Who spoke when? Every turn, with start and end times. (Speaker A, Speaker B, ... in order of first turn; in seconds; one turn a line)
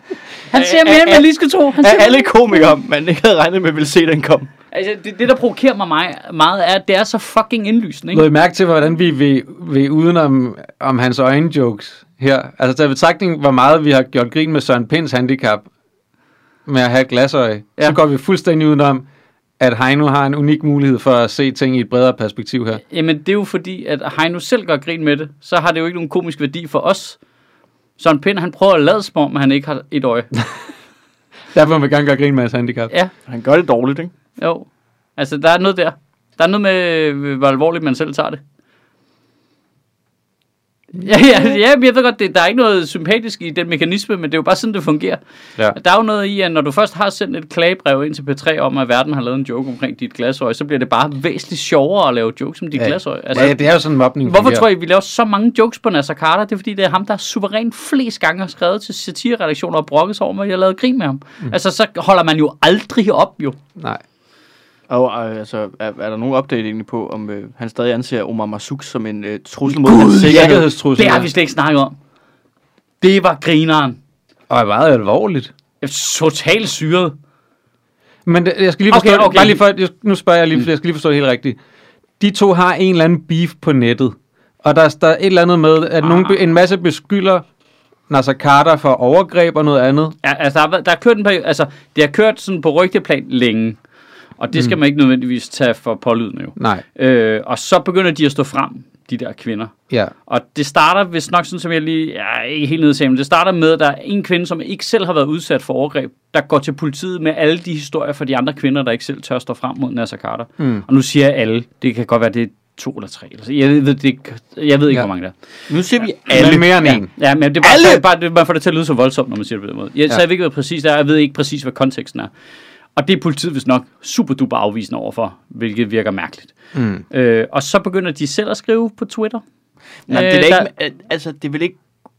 Speaker A: 0.5-2.6
Speaker B: 0.5-4.5
Speaker A: 4.7-8.3
Speaker C: 8.1-15.7
Speaker C: 16.7-19.1
Speaker C: 19.6-22.8
Speaker A: 22.9-27.2
Speaker A: 28.0-30.3
Speaker C: 31.5-32.9
Speaker B: 33.3-34.1
Speaker A: 34.4-38.4
Speaker A: 41.0-53.6
Speaker C: 52.8-54.7
Speaker A: 54.2-63.6
Speaker B: 64.9-70.7
Speaker A: 69.9-72.0
Speaker C: 69.9-71.3
Speaker A: 73.0-74.0
Speaker C: 74.5-75.5
Speaker A: 75.8-77.1
Speaker C: 78.3-81.6
Speaker A: 78.9-79.7
Speaker C: 82.2-87.5
Speaker A: 86.0-86.3
Speaker C: 88.1-90.2
Speaker A: 90.2-93.8
Speaker A: 94.4-99.7
Speaker C: 96.6-96.8
Speaker A: 100.3-115.3
Speaker C: 110.6-110.8
Speaker B: 115.7-116.8
Speaker C: 116.3-117.1
Speaker A: 116.3-122.3
Speaker B: 117.6-118.0
Speaker A: 123.0-126.5
Speaker C: 126.8-127.0
Speaker A: 127.1-129.4
Speaker B: 130.1-131.8
Speaker A: 130.1-130.7